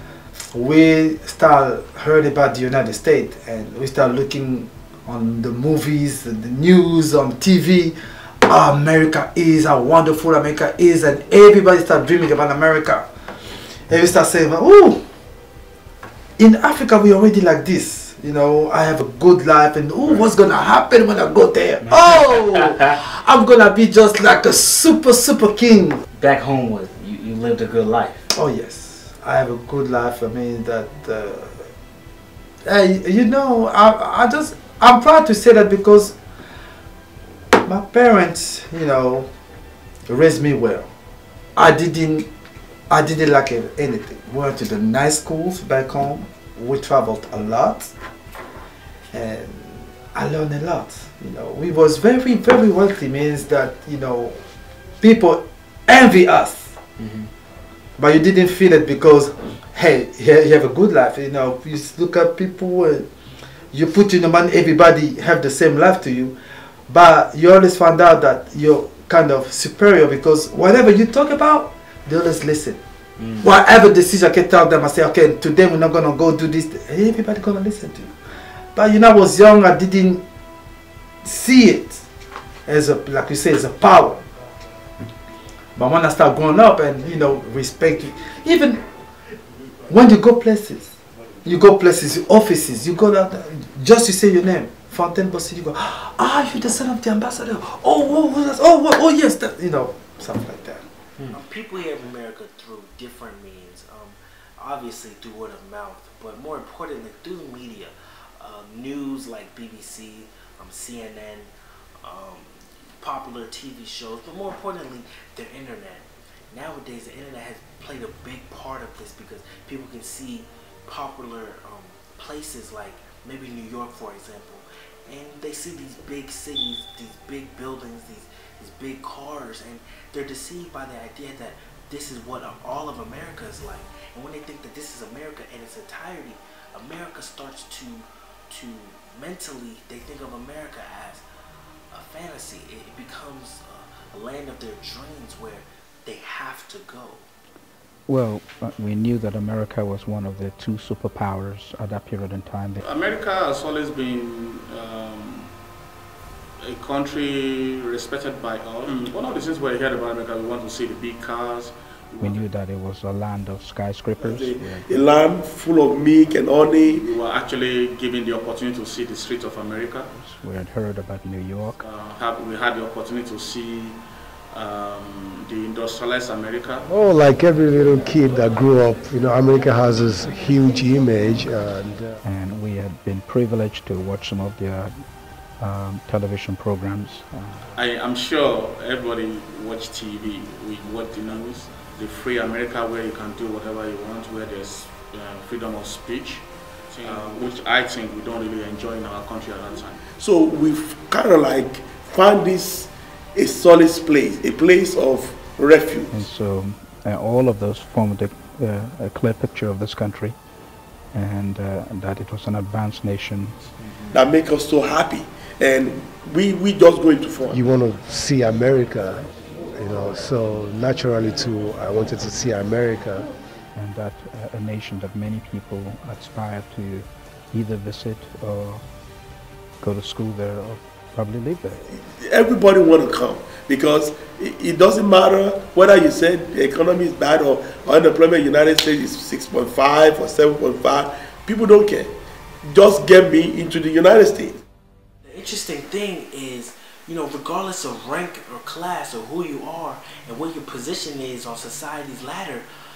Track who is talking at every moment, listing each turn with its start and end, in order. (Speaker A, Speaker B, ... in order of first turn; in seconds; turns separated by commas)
Speaker A: 0.4-15.0, Speaker A: 16.4-26.0, Speaker B: 21.8-23.0, Speaker B: 26.1-28.3, Speaker A: 28.3-31.7, Speaker A: 32.6-36.2, Speaker A: 37.6-39.3, Speaker A: 40.1-40.9, Speaker A: 41.5-42.3, Speaker A: 42.9-47.9, Speaker A: 49.1-54.4, Speaker A: 55.0-56.8, Speaker B: 57.0-57.3, Speaker A: 58.0-63.1, Speaker A: 63.7-72.8, Speaker B: 73.2-73.4, Speaker A: 73.4-80.2, Speaker A: 81.2-82.0, Speaker A: 82.7-84.2, Speaker A: 85.8-88.8, Speaker A: 89.9-90.9, Speaker A: 91.4-100.8, Speaker C: 101.3-111.5, Speaker C: 112.0-141.2, Speaker C: 141.9-147.3, Speaker D: 148.1-152.8, Speaker E: 152.8-155.5, Speaker E: 156.6-162.4, Speaker D: 162.2-165.1, Speaker F: 164.2-167.1, Speaker E: 166.8-170.1, Speaker D: 170.1-171.8, Speaker E: 171.8-174.0, Speaker E: 174.5-176.9, Speaker G: 176.9-182.1, Speaker D: 182.2-185.1, Speaker D: 185.6-187.6, Speaker E: 187.7-200.0, Speaker F: 200.2-206.2, Speaker D: 206.1-210.3, Speaker D: 211.1-213.7, Speaker F: 214.1-217.7, Speaker G: 217.5-223.3, Speaker D: 223.7-228.8, Speaker D: 229.8-231.8, Speaker F: 231.9-242.1, Speaker F: 242.6-244.6, Speaker C: 245.2-252.7